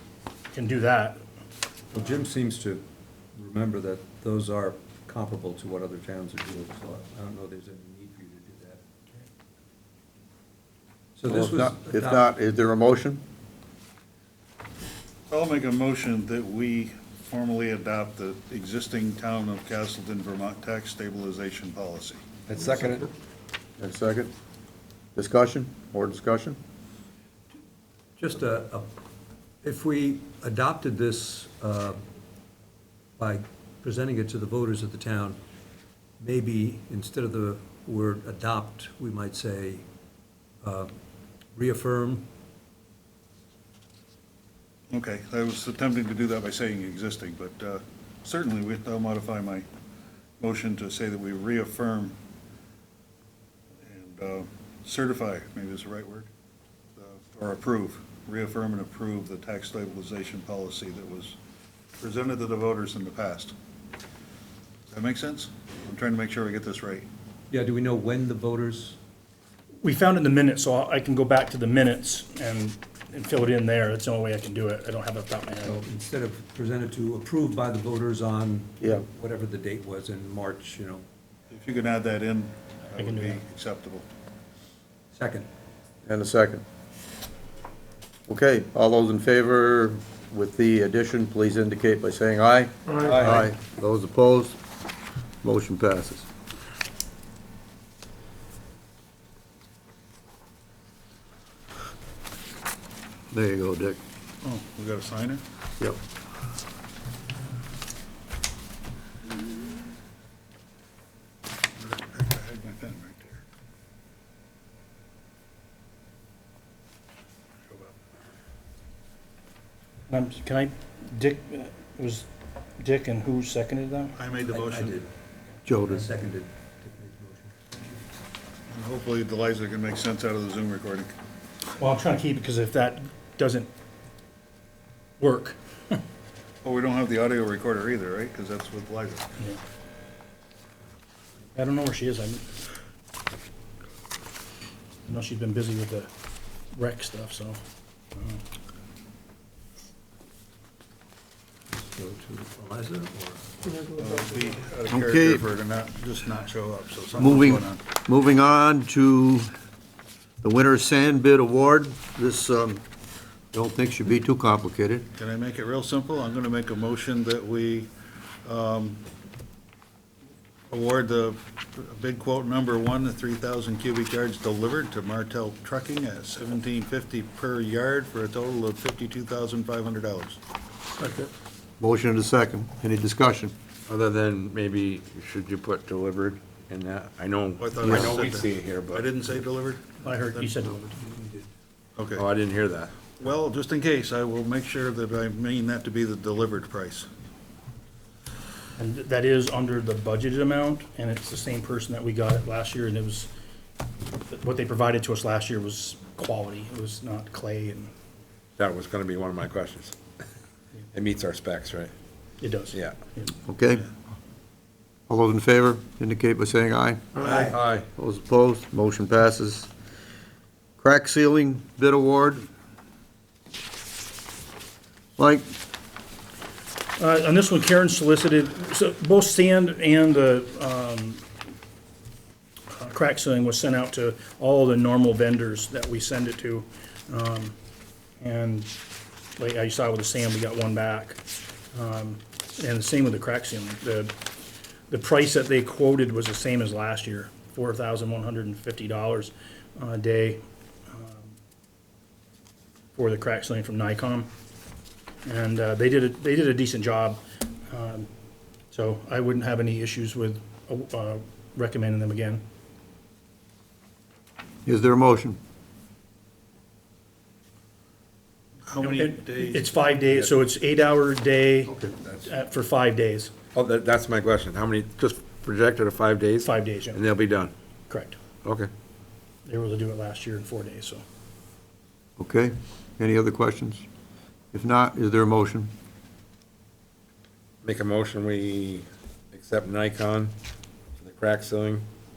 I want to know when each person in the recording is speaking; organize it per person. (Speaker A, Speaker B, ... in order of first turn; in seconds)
Speaker A: 0.5-1.2, 69.8-75.8, 83.0-83.4, 120.1-122.3, 122.8-124.2, 131.8-133.7, 135.2-136.0, 141.5-142.5, 145.1-146.1, 146.7-147.6, 148.2-148.4, 190.0-191.0, 198.8-203.3, 204.3-207.9, 212.4-213.3, 227.0-231.2, 232.7-237.5, 238.2-238.7, 239.4-241.2, 241.7-244.2, 244.9-251.3, 252.9-254.3, 255.2-258.1, 258.7-262.4, 268.8-273.3, 276.4-277.0, 277.9-278.2, 279.5-281.0
Speaker B: 1.9-8.8, 11.2-12.3, 28.2-28.9, 29.6-32.0, 33.2-35.4, 36.2-39.9, 40.6-40.9, 41.5-42.3, 67.5-69.0, 75.6-81.0, 85.1-85.5, 93.0-93.4, 124.5-125.1, 125.9-127.9, 151.7-153.5
Speaker C: 11.3-13.2, 23.8-24.3, 25.1-26.6, 86.0-86.6, 88.3-94.6, 95.4-96.3, 103.3-104.0, 125.7-126.1, 154.9-155.4, 157.2-159.5, 160.4-162.8, 163.5-165.1, 181.8-183.5, 187.8-188.2, 213.5-213.9, 215.1-219.7, 220.8-222.5, 225.2-225.4, 264.6-265.4, 282.2-283.8, 284.5-285.7
Speaker D: 15.3-22.2, 44.9-49.7, 50.4-52.2, 53.8-56.3, 57.0-61.4, 62.0-63.5, 64.9-67.1, 81.5-84.0, 104.4-105.4, 111.8-113.4, 117.7-117.9, 124.2-125.0, 128.7-131.1, 136.6-139.3, 154.0-157.8, 165.2-167.9, 168.4-169.0, 170.7-180.4, 187.6-190.7, 192.0-192.2, 193.2-197.1, 268.7-269.7
Speaker E: 22.5-23.1, 183.8-189.0, 192.2-193.0, 208.6-210.0, 210.9-211.9, 217.2-217.9, 273.5-277.5, 278.4-278.7, 287.6-290.4, 291.0-291.9